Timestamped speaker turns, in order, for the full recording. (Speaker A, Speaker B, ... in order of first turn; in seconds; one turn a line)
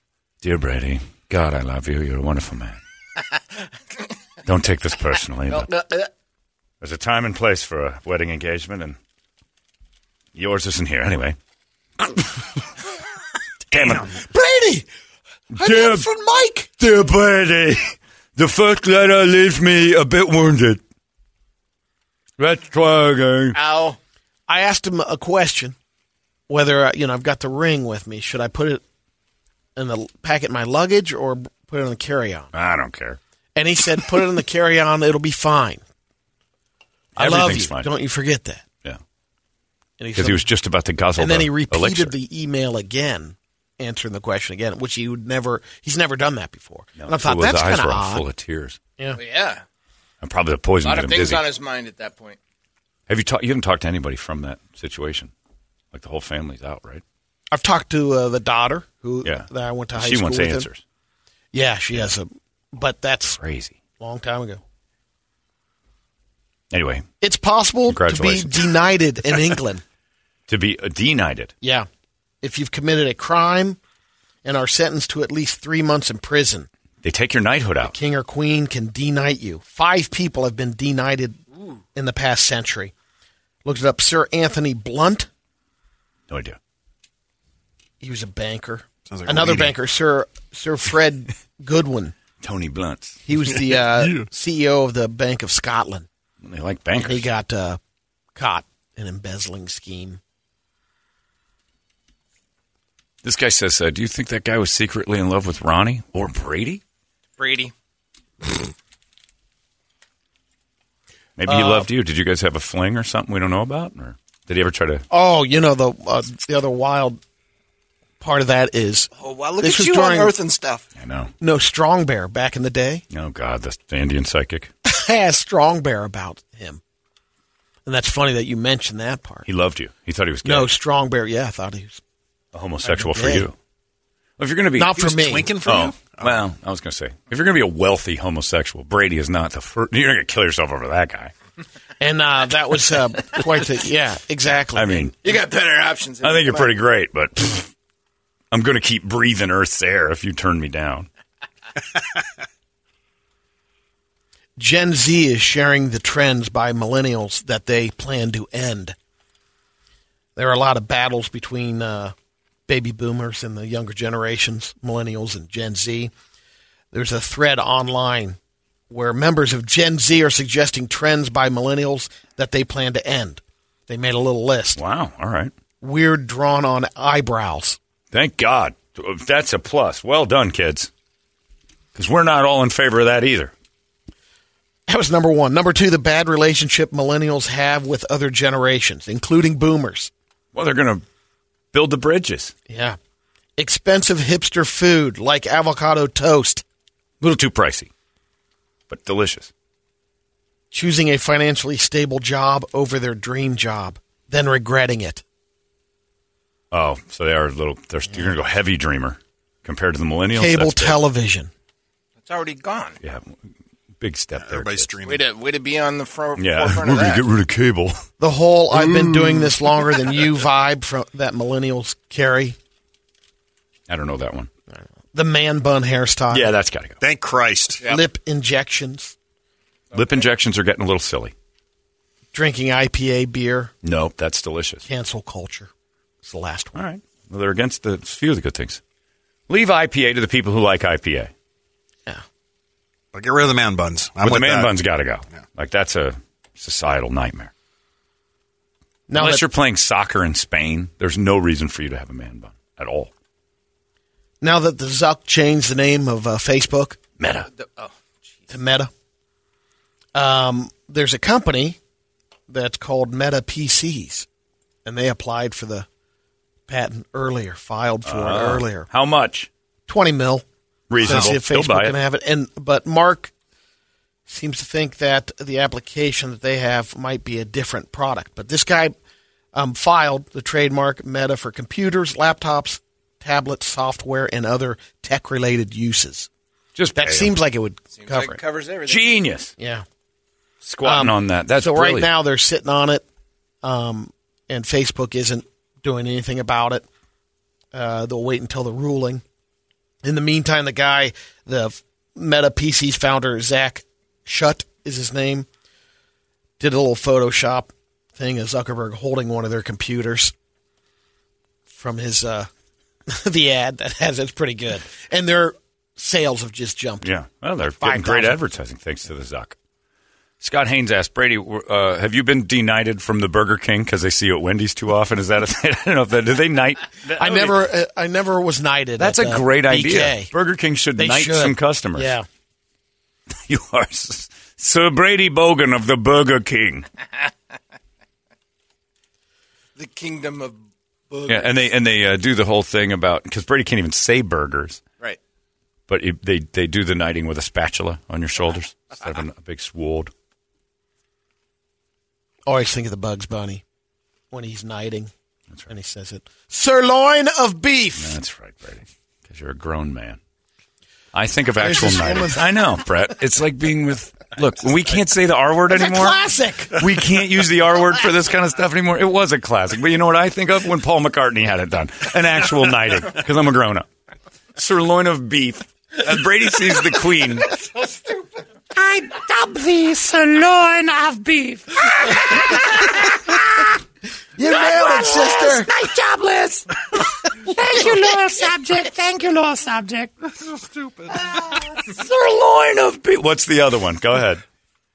Speaker A: 0.4-2.8
Speaker A: 4.5-5.7
Speaker B: 5.5-6.1
Speaker A: 6.8-9.0
Speaker A: 10.3-11.4
Speaker A: 12.0-12.5
Speaker A: 13.7-14.1
Speaker C: 13.7-14.9
Speaker A: 15.5-16.1
Speaker C: 15.6-16.7
Speaker A: 16.8-20.8
Speaker A: 22.4-23.6
Speaker B: 23.6-24.0
Speaker C: 24.5-25.8
Speaker C: 26.5-28.8
Speaker C: 29.8-32.5
Speaker A: 32.5-33.2
Speaker C: 33.5-35.8
Speaker A: 37.2-37.9
Speaker C: 37.2-38.6
Speaker C: 40.0-40.5
Speaker A: 40.2-42.1
Speaker C: 41.2-48.2
Speaker A: 47.0-48.8
Speaker B: 49.1-49.6
Speaker A: 50.2-51.5
Speaker B: 50.8-52.4
Speaker A: 53.1-55.3
Speaker A: 55.9-57.0
Speaker C: 57.5-60.7
Speaker A: 59.2-60.8
Speaker C: 61.5-63.4
Speaker A: 63.4-63.8
Speaker C: 64.0-64.6
Speaker A: 66.7-67.1
Speaker C: 67.2-69.8
Speaker A: 67.9-68.7
Speaker A: 70.5-71.5
Speaker C: 71.6-71.9
Speaker C: 72.4-73.8
Speaker C: 74.4-76.7
Speaker A: 77.0-78.0
Speaker C: 77.8-81.4
Speaker C: 81.9-82.9
Speaker C: 83.7-85.3
Speaker A: 86.3-86.6
Speaker C: 88.0-92.2
Speaker D: 89.1-89.7
Speaker A: 92.4-93.2
Speaker C: 93.3-96.1
Speaker A: 96.4-97.3
Speaker C: 97.0-97.8
Speaker C: 98.3-100.2
Speaker A: 103.2-106.8
Speaker B: 107.4-107.7
Speaker A: 111.4-115.1
Speaker C: 111.5-111.9
Speaker C: 115.1-117.2
Speaker C: 118.2-119.1
Speaker B: 119.2-120.9
Speaker C: 119.6-120.3
Speaker A: 121.0-121.3
Speaker C: 121.4-123.0
Speaker A: 123.1-124.7
Speaker C: 124.8-126.8
Speaker C: 127.8-129.5
Speaker A: 129.5-130.7
Speaker C: 130.4-132.0
Speaker A: 132.5-133.6
Speaker C: 132.8-133.5
Speaker A: 134.4-135.0
Speaker C: 134.8-135.5
Speaker D: 135.0-136.4
Speaker A: 135.6-141.3
Speaker C: 142.0-145.1
Speaker A: 144.8-145.1
Speaker B: 145.2-146.7
Speaker A: 146.2-147.7
Speaker A: 148.5-151.1
Speaker C: 154.6-159.0
Speaker C: 160.4-162.2
Speaker C: 162.7-166.1
Speaker C: 166.9-168.4
Speaker C: 168.9-174.8
Speaker A: 174.8-175.5
Speaker C: 175.8-177.8
Speaker A: 178.1-180.9
Speaker A: 181.9-183.5
Speaker C: 184.9-190.1
Speaker A: 190.5-191.0
Speaker A: 191.7-192.5
Speaker C: 192.7-193.0
Speaker C: 193.6-196.6
Speaker A: 197.2-197.9
Speaker A: 198.9-199.5
Speaker C: 200.7-205.2
Speaker A: 206.7-211.0
Speaker C: 210.3-211.5
Speaker B: 212.2-213.0
Speaker A: 213.0-213.4
Speaker A: 214.0-214.9
Speaker D: 214.4-215.2
Speaker B: 215.0-217.2
Speaker A: 216.4-218.0
Speaker C: 218.2-222.6
Speaker D: 218.9-219.2
Speaker A: 223.9-224.5
Speaker C: 224.7-226.5
Speaker A: 226.3-227.0
Speaker D: 227.0-227.8
Speaker C: 227.8-229.2
Speaker A: 229.9-231.3
Speaker B: 230.0-230.2
Speaker C: 232.3-233.7
Speaker A: 233.8-234.8
Speaker C: 234.8-235.7
Speaker C: 236.2-236.8
Speaker A: 236.8-238.8
Speaker A: 239.5-241.3
Speaker D: 243.1-244.8
Speaker A: 244.2-247.5
Speaker C: 249.1-249.5
Speaker A: 249.1-253.1
Speaker C: 254.4-257.0
Speaker A: 257.2-257.5
Speaker B: 257.5-258.5
Speaker C: 258.5-258.9
Speaker C: 260.1-261.8
Speaker C: 262.5-264.3
Speaker C: 264.9-265.9
Speaker C: 266.7-268.9
Speaker A: 268.1-269.5
Speaker C: 269.9-270.4
Speaker A: 270.9-272.0
Speaker C: 271.0-273.3
Speaker C: 274.3-279.0
Speaker C: 279.5-286.3
Speaker A: 286.8-287.3
Speaker C: 286.9-288.4
Speaker B: 287.9-289.2
Speaker A: 288.9-289.5
Speaker C: 289.6-289.9
Speaker A: 290.6-292.1
Speaker C: 290.8-293.1
Speaker C: 293.6-296.9
Speaker C: 297.7-299.2
Speaker C: 300.0-305.5
Speaker C: 306.6-310.3
Speaker C: 311.7-312.5
Speaker C: 313.1-317.1
Speaker A: 317.0-319.6
Speaker C: 317.8-318.4
Speaker A: 320.4-327.6
Speaker C: 327.1-330.3
Speaker A: 329.0-332.1
Speaker C: 331.0-332.3
Speaker A: 333.5-336.9
Speaker B: 339.8-340.6
Speaker B: 341.1-341.7
Speaker A: 341.3-344.8
Speaker A: 345.9-350.1
Speaker C: 352.5-353.6
Speaker C: 354.3-355.1
Speaker C: 355.7-358.2
Speaker A: 358.0-360.2
Speaker A: 361.1-366.2
Speaker C: 361.6-362.4
Speaker C: 365.7-366.8
Speaker A: 366.7-373.9
Speaker A: 374.6-377.5
Speaker E: 378.7-383.7
Speaker C: 384.4-385.7
Speaker E: 384.5-390.3
Speaker D: 390.8-391.1
Speaker E: 391.8-393.0
Speaker A: 392.9-394.4